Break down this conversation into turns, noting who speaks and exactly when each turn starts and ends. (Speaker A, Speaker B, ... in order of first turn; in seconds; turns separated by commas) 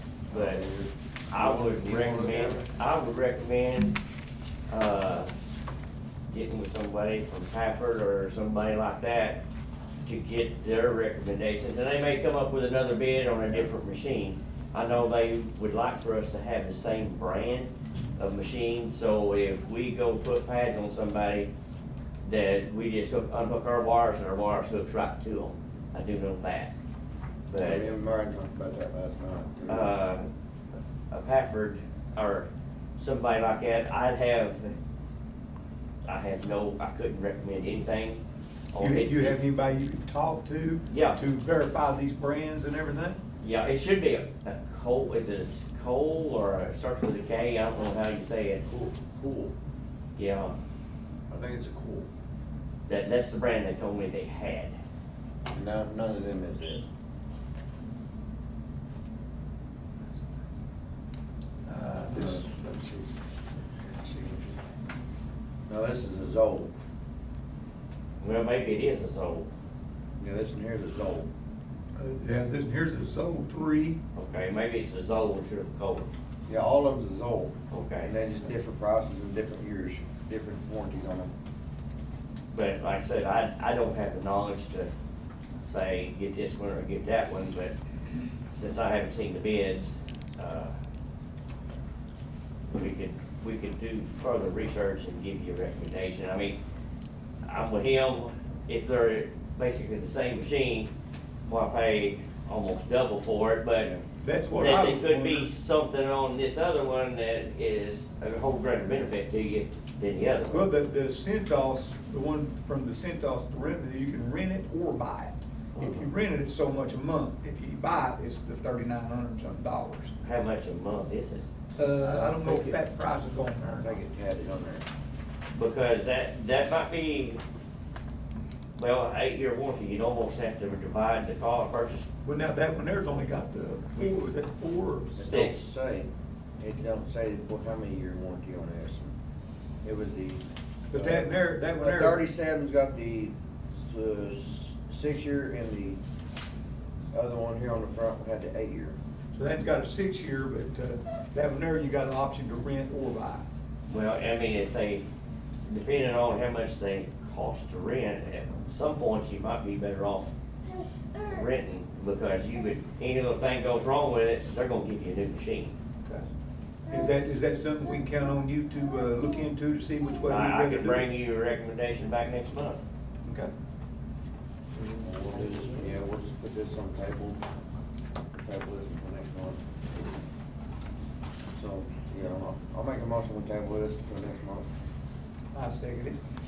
Speaker A: 0.3-2.7, Speaker B: 0.3-0.6, Speaker B: 1.3-4.0, Speaker B: 4.7-5.3, Speaker B: 6.3-9.4, Speaker B: 10.0-21.5, Speaker B: 22.2-26.7, Speaker B: 27.5-27.9, Speaker A: 27.6-29.9, Speaker B: 29.7-30.3, Speaker B: 31.1-34.8, Speaker B: 36.0-38.2, Speaker B: 38.7-39.4, Speaker C: 38.8-43.2, Speaker B: 40.9-41.2, Speaker B: 43.4-48.6, Speaker A: 48.7-49.5, Speaker B: 50.2-50.5, Speaker A: 51.3-52.1, Speaker B: 52.9-54.8, Speaker A: 55.5-56.9, Speaker C: 61.6-62.9, Speaker A: 62.1-64.5, Speaker A: 65.7-66.7, Speaker B: 68.2-69.5, Speaker A: 70.2-71.3, Speaker C: 72.0-74.0, Speaker B: 74.2-76.1, Speaker A: 76.5-81.3, Speaker B: 77.7-78.1, Speaker B: 82.5-84.9, Speaker B: 85.6-87.8, Speaker B: 88.5-90.8, Speaker B: 92.7-96.6, Speaker B: 97.5-100.9, Speaker B: 101.5-103.9, Speaker A: 103.8-104.0, Speaker C: 104.2-105.5, Speaker B: 104.6-110.7, Speaker C: 110.5-120.1, Speaker B: 115.8-116.1, Speaker B: 120.2-121.5, Speaker C: 121.8-123.9, Speaker A: 122.0-122.8, Speaker A: 123.7-124.9, Speaker B: 125.5-127.4, Speaker B: 128.8-132.1, Speaker C: 132.2-135.1, Speaker A: 135.1-139.2, Speaker B: 135.2-135.7, Speaker A: 139.8-146.0, Speaker C: 140.9-142.2, Speaker A: 147.1-149.0, Speaker C: 149.3-153.5, Speaker B: 153.9-155.1, Speaker B: 155.7-160.3, Speaker B: 161.2-165.8, Speaker C: 166.9-171.1, Speaker B: 170.3-172.8, Speaker C: 173.2-173.5, Speaker C: 174.8-175.8, Speaker A: 175.0-177.4, Speaker A: 178.3-180.0, Speaker A: 181.6-184.7, Speaker C: 185.5-186.2